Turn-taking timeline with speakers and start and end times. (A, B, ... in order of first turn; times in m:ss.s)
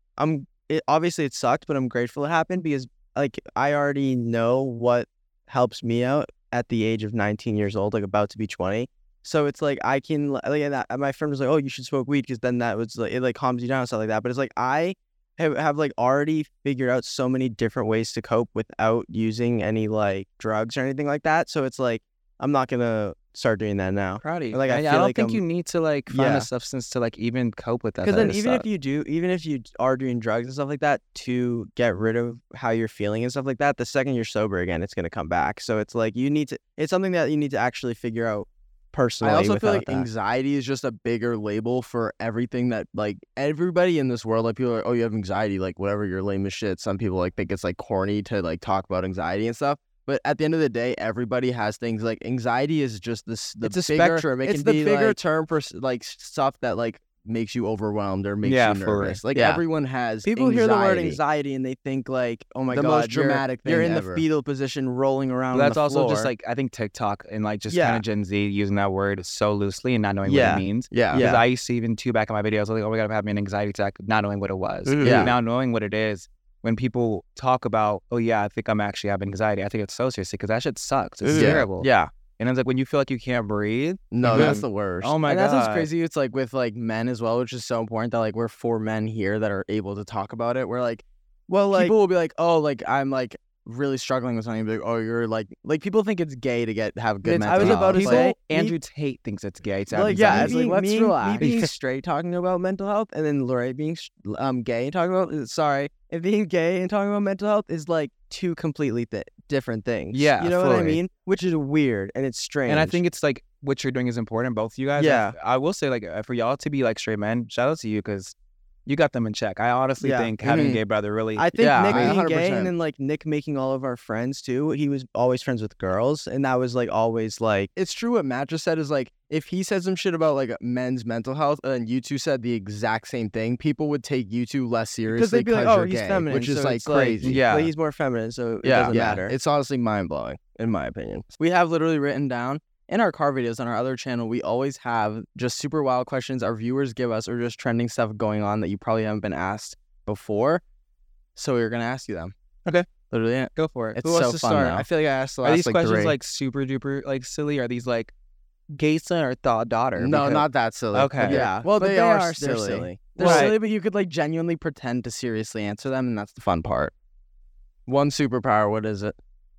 0:00.2-0:25.4 A
0:24.2-0:28.6 B
0:26.1-0:26.5 A
0:28.0-0:40.1 A
0:39.2-1:01.2 C
0:53.6-0:55.2 D
0:58.4-0:59.2 B
0:59.3-0:59.6 D
1:00.2-1:06.3 A
1:02.7-1:04.2 C
1:02.7-1:04.0 D
1:05.5-1:25.9 B
1:07.7-1:08.0 A
1:10.2-1:11.4 A
1:10.9-1:11.2 C
1:14.9-1:15.3 A
1:15.0-1:15.3 C
1:21.3-1:21.9 A
1:21.3-1:21.9 C
1:24.1-1:25.2 C
1:25.2-1:31.0 D
1:31.5-1:31.9 A
1:31.7-1:38.3 D
1:37.2-1:38.8 A
1:37.4-1:40.5 B
1:39.9-1:53.0 A
1:40.0-1:41.5 D
1:41.4-1:41.7 B
1:50.1-1:51.0 B
1:52.6-1:58.3 B
1:55.0-1:55.3 A
1:58.8-2:02.2 B
2:00.0-2:00.3 A
2:00.4-2:00.8 C
2:01.4-2:07.7 A
2:01.6-2:02.2 D
2:01.6-2:02.7 C
2:07.8-2:09.5 D
2:09.0-2:17.4 C
2:15.1-2:19.3 A
2:16.9-2:17.7 B
2:18.6-2:21.3 C
2:21.4-2:30.6 D
2:31.4-2:32.3 D
2:33.1-2:34.8 D
2:33.6-2:38.1 B
2:35.4-2:36.1 C
2:38.7-2:41.4 B
2:40.0-2:43.2 C
2:41.2-2:46.4 D
2:41.3-2:41.6 A
2:43.2-2:43.6 B
2:43.2-2:43.5 A
2:46.4-2:46.9 C
2:47.9-2:49.2 C